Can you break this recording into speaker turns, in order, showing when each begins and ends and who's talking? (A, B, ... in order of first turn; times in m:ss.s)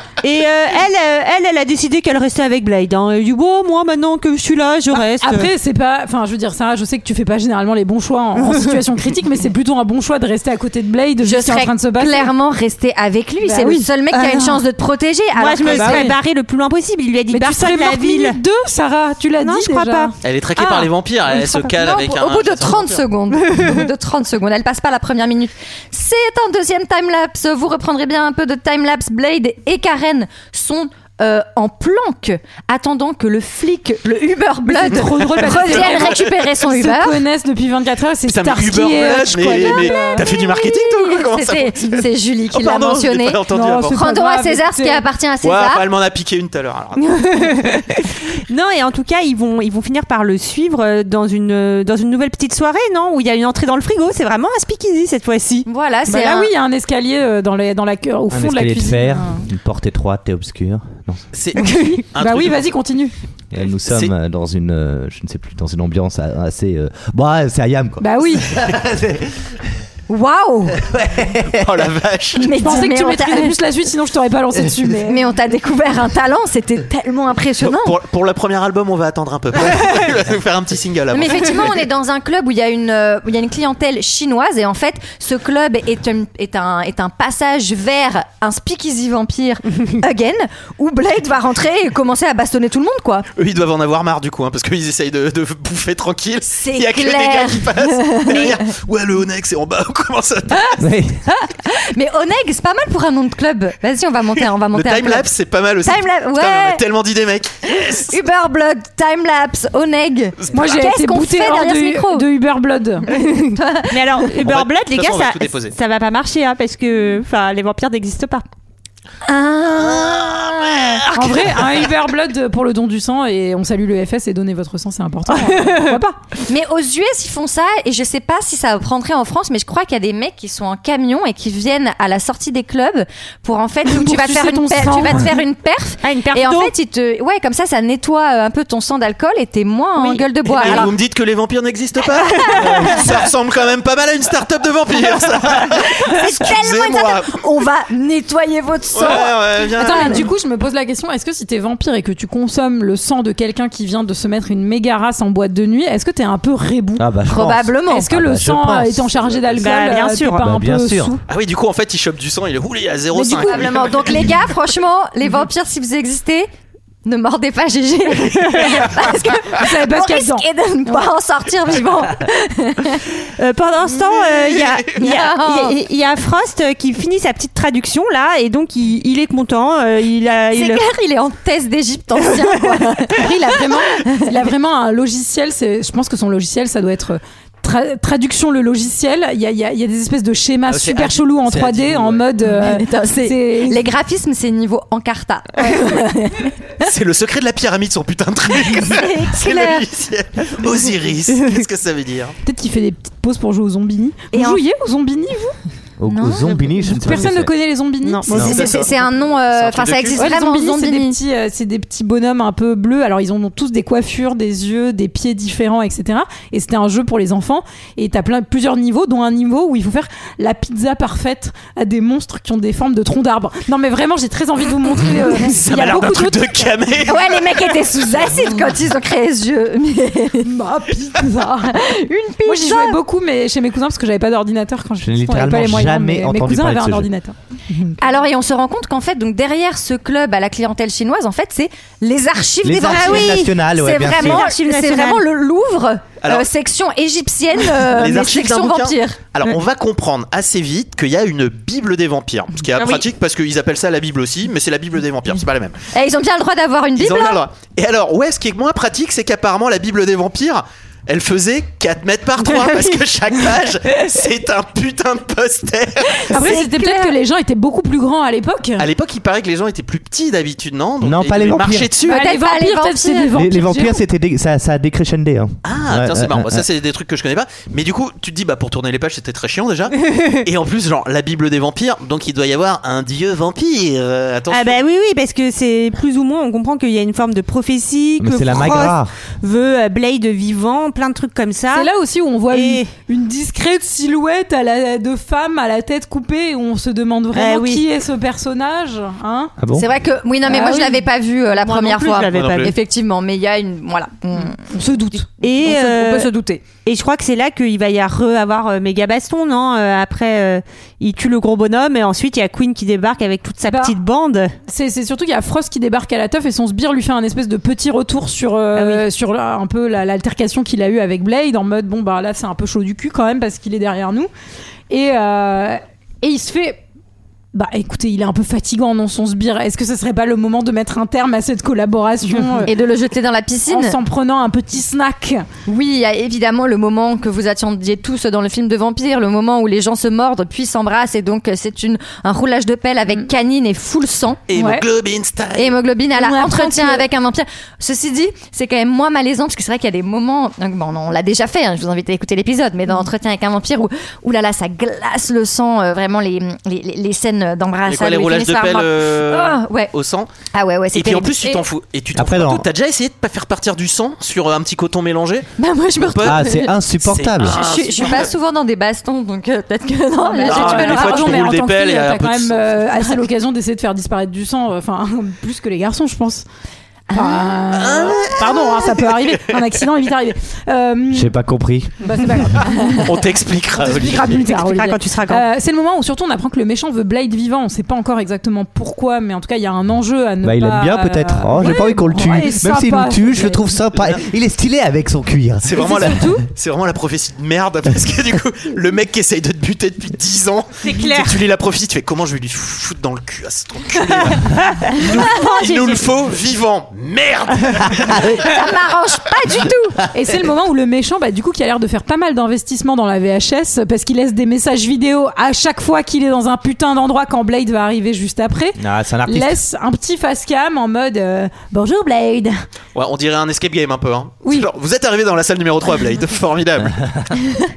0:00.2-0:05.5 A
0:04.9-0:12.3 B
0:08.4-0:08.8 A
0:11.2-0:16.1 C
0:13.4-0:14.6 B
0:15.4-0:18.4 A
0:15.7-0:16.2 B
0:17.3-0:21.5 B
0:19.4-0:20.1 A
0:20.2-0:23.0 D
0:21.3-0:37.2 C
0:34.6-0:40.3 B
0:35.0-0:36.2 D
0:38.3-0:44.0 D
0:39.6-0:45.8 C
0:43.5-0:45.0 B
0:45.4-0:47.5 D
0:48.5-0:55.7 A
0:55.7-0:56.5 C
0:56.1-0:59.4 B
0:58.3-1:01.2 E
1:01.3-1:02.7 D
1:01.6-1:03.1 B
1:03.5-1:09.5 E
1:03.9-1:04.1 D
1:08.0-1:08.6 B
1:10.1-1:10.8 C
1:10.8-1:11.9 E
1:11.5-1:12.5 D
1:12.4-1:13.6 C
1:12.5-1:15.2 B
1:15.1-1:17.9 C
1:17.6-1:21.8 D
1:21.1-1:33.3 C
1:33.4-1:40.8 D
1:36.6-1:38.6 C
1:40.5-1:45.3 C
1:40.8-1:41.2 E
1:44.7-1:48.1 D
1:45.8-1:46.8 C
1:47.9-1:52.3 C
1:50.4-1:50.8 D
1:50.5-1:53.1 B
1:53.5-1:54.0 C
1:53.9-1:58.4 A
1:54.4-1:55.8 D
1:59.2-2:00.6 C
1:59.8-2:01.9 D
2:01.1-2:06.2 B
2:05.3-2:06.0 A
2:06.5-2:20.9 C
2:13.9-2:15.4 B
2:16.0-2:16.7 A
2:20.4-2:27.4 D
2:20.6-2:20.9 A
2:22.6-2:23.0 E
2:25.8-2:30.2 C
2:28.9-2:30.3 D
2:29.8-2:37.1 B
2:37.0-2:39.4 E
2:37.3-2:38.1 C
2:37.9-2:41.2 B
2:39.6-2:40.4 A
2:40.4-2:41.2 E
2:41.3-2:44.3 D
2:43.1-2:44.0 B
2:43.4-2:46.5 C
2:47.0-2:53.0 C
2:49.6-2:51.1 B
2:53.4-3:00.9 A
2:54.1-2:54.7 D
2:55.0-2:55.8 C
3:00.6-3:04.2 C
3:03.1-3:13.8 B
3:10.7-3:12.3 D
3:12.4-3:16.5 C
3:16.8-3:22.4 D
3:18.7-3:19.8 C
3:22.4-3:25.6 B
3:24.3-3:24.6 C
3:26.0-3:27.5 E
3:26.1-3:26.6 C
3:26.8-3:28.9 B
3:28.0-3:28.3 A
3:28.3-3:28.6 E
3:28.4-3:30.3 D
3:28.4-3:31.2 C
3:30.2-3:46.7 B
3:45.3-3:47.9 D
3:47.1-3:50.5 C
3:50.4-3:51.8 B
3:51.7-3:53.0 C
3:52.4-3:58.0 B
3:55.0-3:57.1 E
3:58.0-4:09.2 C
4:02.6-4:04.5 E
4:02.8-4:05.2 A
4:07.8-4:15.8 D
4:12.8-4:13.0 A
4:15.9-4:17.4 C
4:17.0-4:26.3 D
4:26.3-4:27.1 C
4:26.3-4:28.9 B
4:28.8-4:32.2 D
4:31.0-4:31.9 E
4:32.1-4:33.3 C
4:32.1-4:34.0 B
4:33.3-4:36.7 E
4:35.6-4:44.8 D
4:44.5-4:51.9 A
4:48.2-4:49.1 E
4:51.7-4:59.5 B
4:52.5-4:52.9 A
4:57.3-4:57.8 A
4:59.6-4:59.9 E
4:59.7-5:06.6 C
5:00.4-5:01.0 B
5:01.6-5:02.7 A
5:02.3-5:02.7 D
5:04.6-5:05.3 B
5:05.4-5:06.3 A
5:06.8-5:14.5 A
5:13.7-5:14.0 B
5:14.7-5:24.3 B
5:18.8-5:19.0 A
5:24.9-5:26.8 B
5:27.5-5:32.7 B
5:32.6-5:34.0 C
5:33.7-5:35.5 B
5:35.7-5:44.4 C
5:44.5-5:45.8 D
5:44.5-5:44.8 B
5:45.6-5:59.9 C
5:46.2-5:47.0 B
5:57.9-6:00.3 D
6:00.5-6:01.6 C
6:00.9-6:06.5 D
6:02.2-6:02.7 E
6:05.6-6:11.5 C
6:06.2-6:07.6 E
6:07.0-6:08.3 D
6:10.2-6:16.4 B
6:10.4-6:13.1 D
6:17.1-6:17.4 C
6:17.1-6:21.3 B
6:17.7-6:19.6 D
6:21.1-6:22.6 E
6:22.0-6:23.2 B
6:23.0-6:24.5 D
6:23.8-6:33.7 B
6:24.5-6:25.4 A
6:30.4-6:36.2 E
6:33.9-6:34.2 D
6:35.6-6:48.5 D
6:35.8-6:36.4 B
6:40.8-6:41.4 A
6:44.6-6:46.1 A
6:48.0-6:48.4 E
6:48.4-6:50.0 C
6:50.1-7:02.6 B
6:58.8-6:59.6 E
7:03.0-7:07.0 D
7:06.8-7:07.3 E